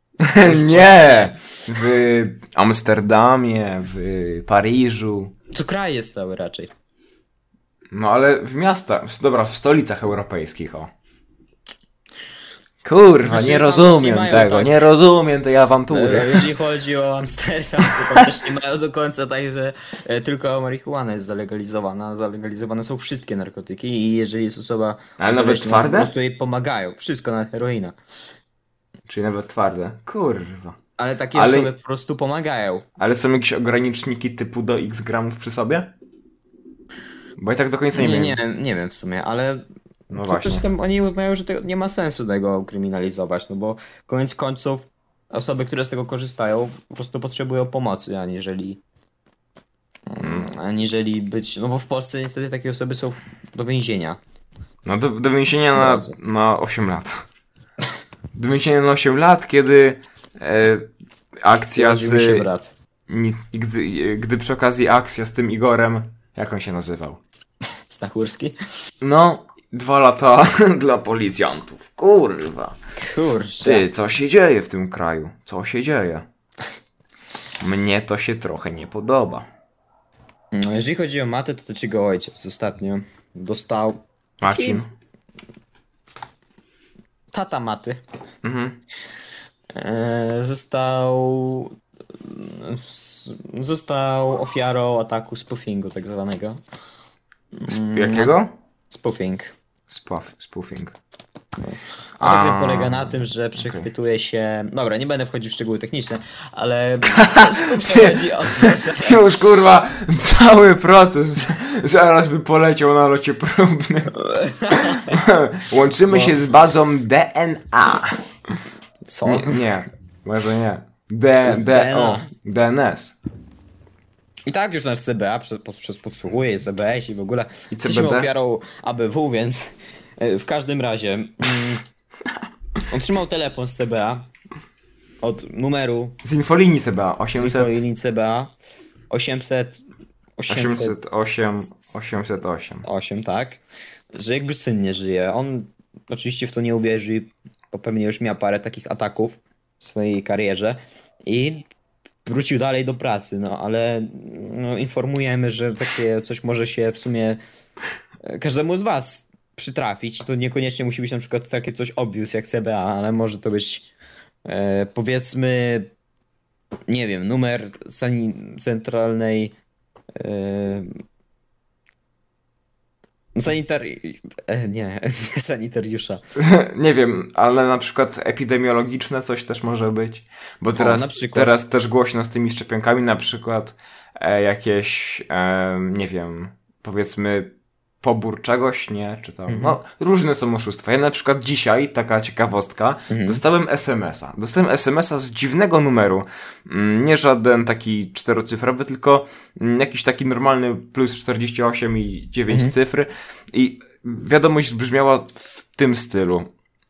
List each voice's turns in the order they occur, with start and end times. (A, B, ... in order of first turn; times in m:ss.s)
0:00.2-0:05.3 A
0:00.4-0:01.6 B
0:05.5-0:06.7 B
0:07.9-0:10.9 A
0:12.8-0:16.5 A
0:13.2-0:14.8 B
0:15.9-0:28.0 B
0:17.9-0:18.2 A
0:25.2-0:26.1 A
0:29.1-0:30.8 A
0:31.0-0:32.9 B
0:31.3-0:31.7 A
0:33.0-0:35.9 A
0:37.4-0:38.4 A
0:37.9-0:48.8 B
0:40.1-0:40.7 A
0:50.1-0:54.2 B
0:50.2-0:50.5 A
0:54.8-0:57.2 A
0:55.8-0:56.2 B
0:58.3-1:00.9 A
1:01.4-1:02.5 A
1:01.8-1:02.7 B
1:03.1-1:07.2 A
1:07.9-1:08.6 B
1:09.0-1:12.8 A
1:13.0-1:13.9 B
1:13.6-1:16.3 A
1:17.6-1:19.5 A
1:20.5-1:24.8 B
1:24.4-1:24.9 A
1:27.3-1:28.0 B
1:28.4-1:28.8 A
1:29.8-1:36.6 B
1:37.5-1:38.3 B
1:37.7-1:38.5 A
1:38.9-1:39.5 B
1:39.9-1:41.0 A
1:41.6-1:49.2 B
1:42.2-1:43.9 A
1:47.1-1:54.2 A
1:54.2-1:55.2 B
1:54.7-1:58.2 A
1:56.1-1:56.4 B
1:59.0-1:59.6 B
1:59.2-2:03.2 A
2:01.4-2:02.3 B
2:04.5-2:11.8 B
2:07.7-2:08.3 A
2:12.9-2:14.3 B
2:15.2-2:16.2 B
2:16.2-2:17.8 A
2:17.4-2:18.5 B
2:19.1-2:19.8 B
2:20.4-2:21.0 B
2:20.5-2:22.8 A
2:22.8-2:23.6 B
2:24.2-2:31.7 B
2:32.2-2:37.4 B
2:38.2-2:43.9 B
2:44.5-2:45.9 B
2:46.9-2:49.5 B
2:50.2-2:50.9 B
2:53.4-2:56.2 B
2:56.4-3:26.5 A
3:00.8-3:01.5 B
3:09.5-3:09.8 B
3:13.1-3:13.4 B
3:22.5-3:22.7 B